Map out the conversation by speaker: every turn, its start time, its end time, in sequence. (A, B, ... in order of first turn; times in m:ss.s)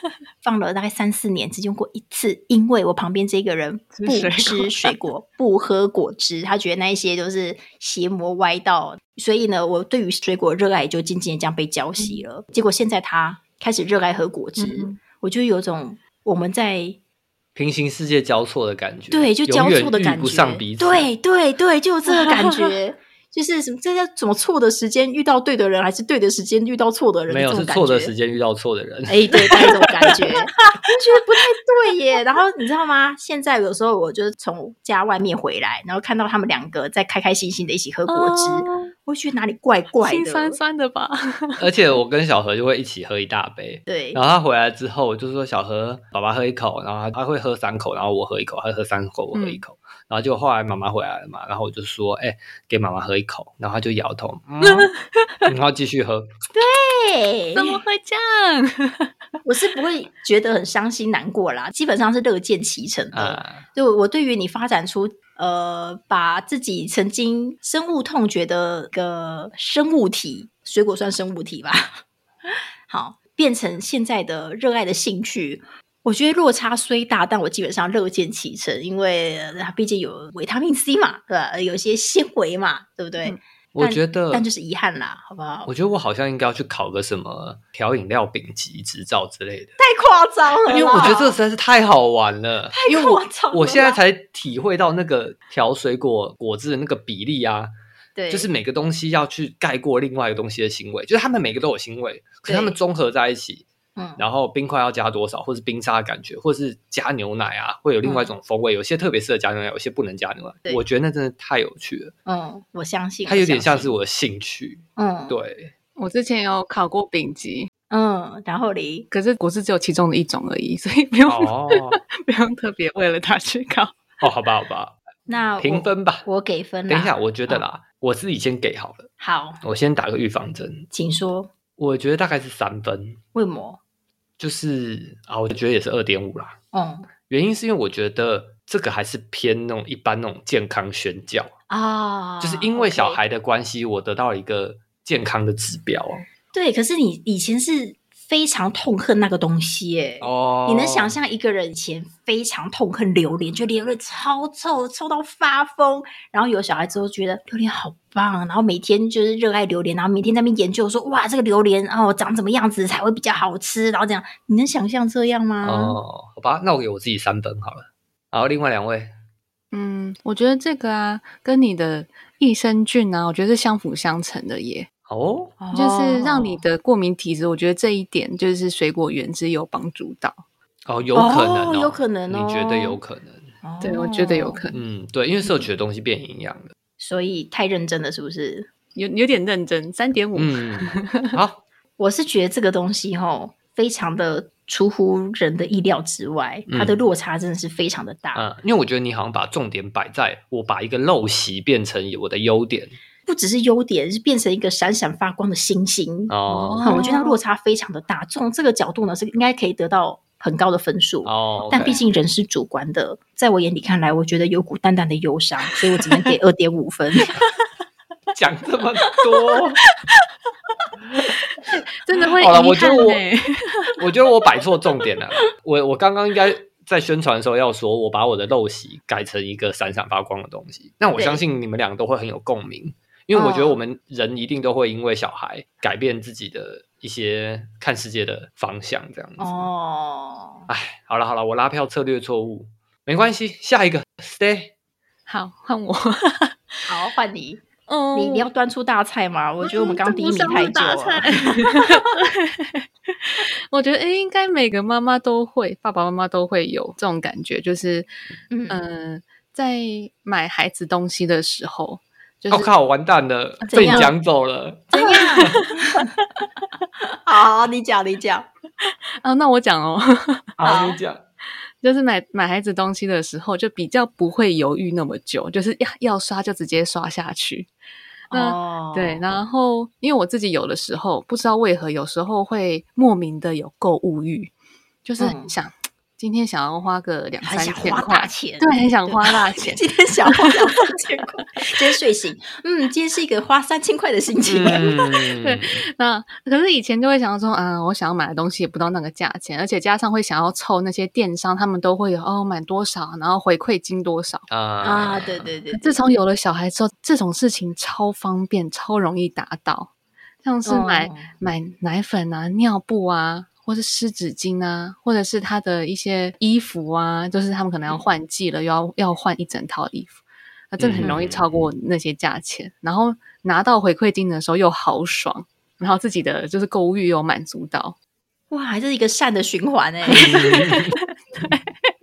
0:00.4-0:17.0 A
0:04.0-0:05.0 B
0:12.0-0:12.2 B
0:14.6-0:15.0 B
0:17.6-0:21.1 C
0:19.1-0:28.1 A
0:22.3-0:22.7 B
0:27.3-0:29.6 C
0:29.1-0:40.6 A
0:29.5-0:30.8 B
0:38.1-0:38.9 B
0:40.0-0:41.7 B
0:41.6-0:54.9 C
0:43.9-0:44.2 A
0:49.3-0:49.6 B
0:54.6-0:55.5 B
0:55.5-0:56.3 C
0:56.5-0:57.8 A
0:57.6-0:59.1 B
0:59.4-1:25.7 A
1:03.1-1:03.7 C
1:23.8-1:24.5 C
1:25.7-1:29.8 C
1:29.8-1:31.4 A
1:30.7-1:37.7 C
1:32.7-1:34.0 A
1:38.2-1:38.5 A
1:38.3-1:52.1 C
1:42.4-1:42.8 A
1:44.0-1:44.2 A
1:48.0-1:48.3 A
1:52.3-1:54.0 A
1:53.3-1:55.7 C
1:55.0-1:55.4 A
1:56.0-1:57.7 B
1:57.9-1:59.1 A
1:59.1-2:04.2 B
2:01.3-2:02.0 C
2:04.2-2:05.0 C
2:05.3-2:07.6 A
2:05.6-2:06.3 C
2:06.9-2:09.1 C
2:09.2-2:09.6 A
2:09.6-2:10.9 C
2:10.9-2:11.5 A
2:11.8-2:13.2 C
2:13.4-2:13.8 A
2:14.4-2:16.6 C
2:16.7-2:17.1 A
2:17.3-2:21.5 C
2:21.7-2:23.2 A
2:22.4-2:26.3 C
2:26.5-2:46.0 A
2:30.2-2:31.1 C
2:45.6-2:49.1 C
2:49.7-2:54.9 B
2:55.1-2:55.6 C
2:55.6-2:56.6 A
2:55.7-3:00.4 B
3:00.9-3:03.5 C
3:01.2-3:03.0 A
3:03.6-3:04.6 A
3:03.8-3:04.8 B
3:04.7-3:06.7 C
3:07.0-3:08.7 A
3:09.0-3:11.4 B
3:10.4-3:11.6 C
3:12.0-3:18.5 A
3:16.7-3:17.0 C
3:18.3-3:23.0 C
3:23.3-3:37.3 A
3:26.3-3:27.0 C
3:26.5-3:27.4 B
3:31.2-3:32.0 C
3:38.3-3:39.8 C
3:41.7-3:44.0 B
3:42.4-3:43.2 C
3:44.0-3:59.7 C
3:51.2-3:51.4 A
3:53.3-3:53.8 A
3:59.4-4:00.7 A
4:00.7-4:04.7 C
4:05.3-4:06.6 B
4:06.9-4:12.0 A
4:07.9-4:08.5 B
4:09.6-4:18.1 B
4:18.5-4:18.8 A
4:18.7-4:22.7 B
4:22.5-4:25.6 C
4:23.7-4:24.1 A
4:23.7-4:24.1 B
4:24.9-4:26.1 A
4:25.1-4:26.0 B
4:27.3-4:28.5 A
4:29.2-4:30.5 B
4:30.6-4:31.2 C
4:30.6-4:31.0 A
4:31.8-4:37.7 B
4:38.3-4:39.2 A
4:38.3-4:44.5 B
4:45.0-4:50.6 B
4:45.2-4:45.5 A
4:47.4-4:54.9 A
4:54.5-4:55.8 C
4:54.7-5:04.5 B
5:04.5-5:05.5 C
5:04.8-5:06.0 A
5:05.7-5:09.9 B
5:10.4-5:20.2 B
5:10.6-5:11.3 A
5:20.7-5:28.0 B
5:20.8-5:21.6 C
5:28.5-5:30.7 A
5:30.1-5:31.7 B
5:30.2-5:30.9 C